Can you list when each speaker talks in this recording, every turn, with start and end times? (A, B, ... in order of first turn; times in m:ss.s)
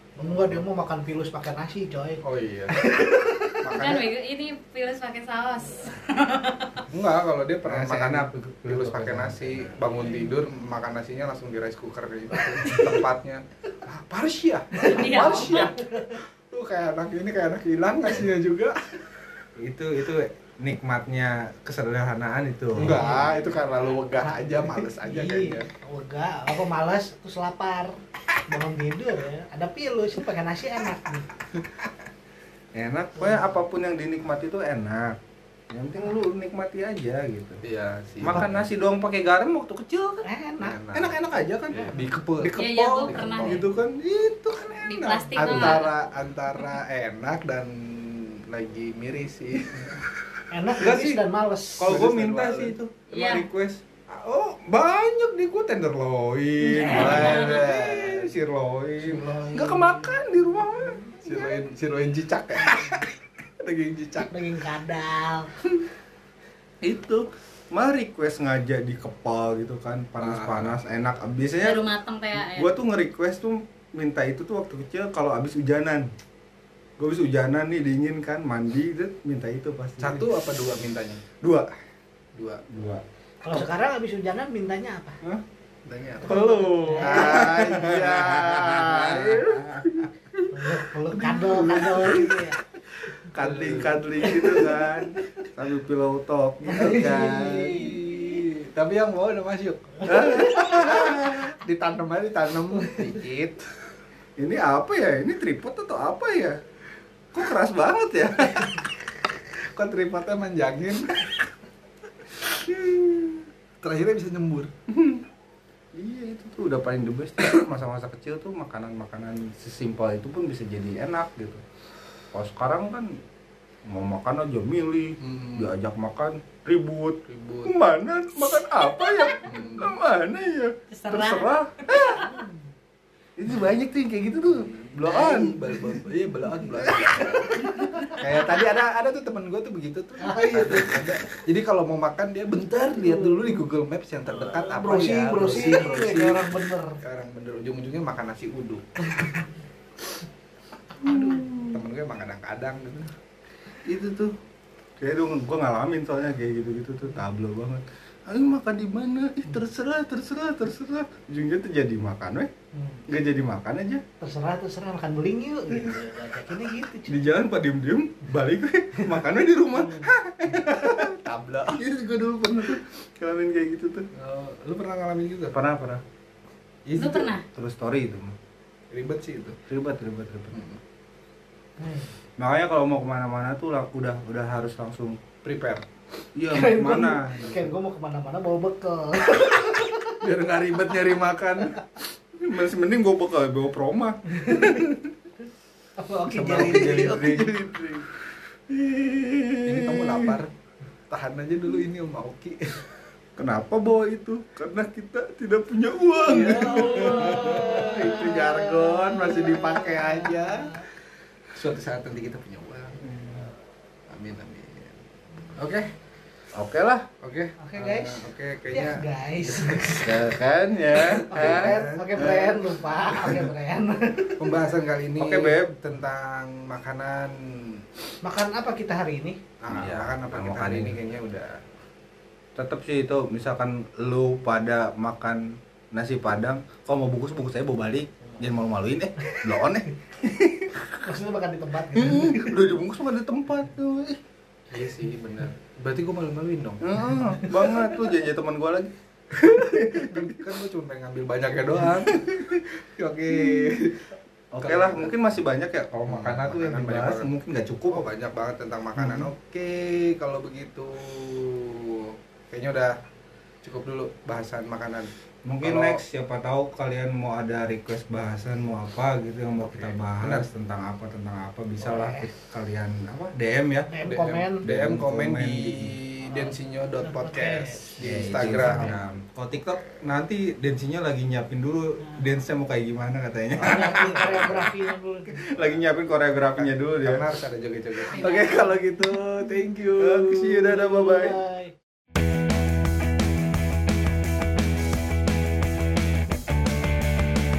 0:00.2-0:03.7 A
0:00.2-0:00.6 B
0:02.2-0:02.9 B
0:03.6-0:04.1 B
0:03.7-0:06.8 C
0:06.9-0:18.8 B
0:07.6-0:09.7 D
0:14.8-0:15.7 C
0:14.9-0:16.2 A
0:19.6-0:23.2 D
0:22.7-0:25.7 B
0:22.8-0:27.9 A
0:28.5-0:31.3 A
0:32.7-0:35.2 D
0:33.2-0:33.4 A
0:35.7-0:37.6 D
0:37.6-0:38.7 B
0:38.2-0:40.2 D
0:40.2-0:40.8 A
0:40.6-0:41.2 B
0:40.9-0:45.8 D
0:41.8-0:43.7 B
0:42.5-0:43.6 C
0:44.7-0:45.9 C
0:45.3-0:50.0 B
0:50.5-0:52.0 A
0:50.8-0:51.2 D
0:51.8-1:01.6 D
0:51.8-0:52.7 B
0:53.1-0:53.5 C
0:56.6-0:57.3 A
0:56.7-0:58.3 B
0:59.0-1:01.2 A
1:01.2-1:02.9 B
1:03.6-1:04.3 B
1:04.3-1:05.5 A
1:06.8-1:16.1 D
1:10.2-1:10.8 B
1:11.6-1:12.7 C
1:17.0-1:20.3 D
1:20.0-1:21.2 B
1:21.4-1:21.7 D
1:22.3-1:22.6 B
1:22.7-1:23.0 D
1:23.4-1:25.2 A
1:25.8-1:29.8 B
1:26.2-1:27.6 A
1:26.2-1:30.1 D
1:30.5-1:32.6 A
1:31.1-1:32.3 B
1:31.4-1:32.3 D
1:33.3-1:38.0 D
1:33.3-1:34.8 B
1:34.4-1:34.8 A
1:36.7-1:43.7 B
1:36.7-1:37.6 A
1:40.0-1:41.5 D
1:44.4-1:46.6 D
1:47.3-1:48.9 D
1:49.7-1:51.2 B
1:52.7-1:53.2 B
1:52.7-1:53.2 D
1:53.8-1:54.7 B
1:54.9-1:55.2 D
1:55.9-2:01.6 D
2:02.3-2:03.1 D
2:03.8-2:12.4 D
2:05.2-2:05.7 B
2:07.3-2:07.7 B
2:09.4-2:09.9 B
2:10.9-2:12.4 C
2:13.4-2:15.9 D
2:14.5-2:28.9 B
2:16.9-2:18.1 D
2:17.6-2:18.2 A
2:20.2-2:21.0 A
2:24.6-2:27.0 A
2:31.0-2:31.8 D
2:31.0-2:33.1 B
2:33.8-2:34.3 D
2:35.0-2:42.5 D
2:42.7-2:43.0 A
2:43.1-2:44.0 D
2:44.2-2:47.3 A
2:47.0-2:54.1 D
2:51.0-2:51.8 B
2:54.1-2:55.6 B
2:55.5-2:56.0 D
2:56.8-2:57.3 B
2:57.0-2:57.4 C
2:57.5-2:58.3 D
2:58.9-2:59.6 B
2:59.7-3:00.6 D
3:00.5-3:00.8 B
3:01.8-3:02.1 A
3:02.4-3:05.2 D
3:05.4-3:05.8 B
3:06.4-3:07.7 D
3:06.5-3:10.2 A
3:10.2-3:11.8 B
3:12.4-3:15.1 D
3:16.0-3:17.5 A
3:16.3-3:18.1 D
3:16.3-3:18.0 B
3:18.7-3:20.4 D
3:19.6-3:20.5 B
3:21.1-3:22.9 B
3:23.4-3:28.2 D
3:26.2-3:30.9 B
3:26.8-3:30.7 A
3:31.5-3:33.0 B
3:33.0-3:33.5 D
3:34.1-3:35.0 B
3:35.5-3:35.9 B
3:36.5-3:37.2 D
3:37.2-3:40.2 B
3:37.6-3:40.1 A
3:40.0-3:42.7 D
3:40.9-3:42.4 B
3:41.3-3:44.6 A
3:44.4-3:47.8 B
3:45.2-3:45.7 D
3:48.2-3:49.4 A
3:49.6-3:51.6 B
3:49.7-3:51.0 D
3:52.5-4:00.7 D
4:00.8-4:02.7 A
4:01.9-4:04.2 D
4:04.7-4:07.0 B
4:06.8-4:10.4 D
4:09.9-4:14.1 B
4:11.8-4:12.6 D
4:13.3-4:13.8 D
4:14.5-4:18.1 D
4:14.6-4:15.1 B
4:16.0-4:17.3 B
4:17.9-4:23.0 B
4:19.0-4:19.3 D
4:23.6-4:25.1 B
4:25.4-4:36.0 D
4:25.6-4:26.0 B
4:29.6-4:30.5 B
4:31.8-4:32.3 A
4:33.9-4:34.6 A
4:34.0-4:39.1 B
4:37.0-4:38.9 A
4:38.0-4:44.8 D
4:43.6-4:45.4 A
4:43.6-4:44.7 B
4:45.4-4:47.2 D
4:46.5-4:50.7 B
4:48.2-4:48.7 C
4:48.2-4:48.7 D
4:48.2-4:48.5 A
4:50.0-4:51.4 D
4:50.6-4:51.7 A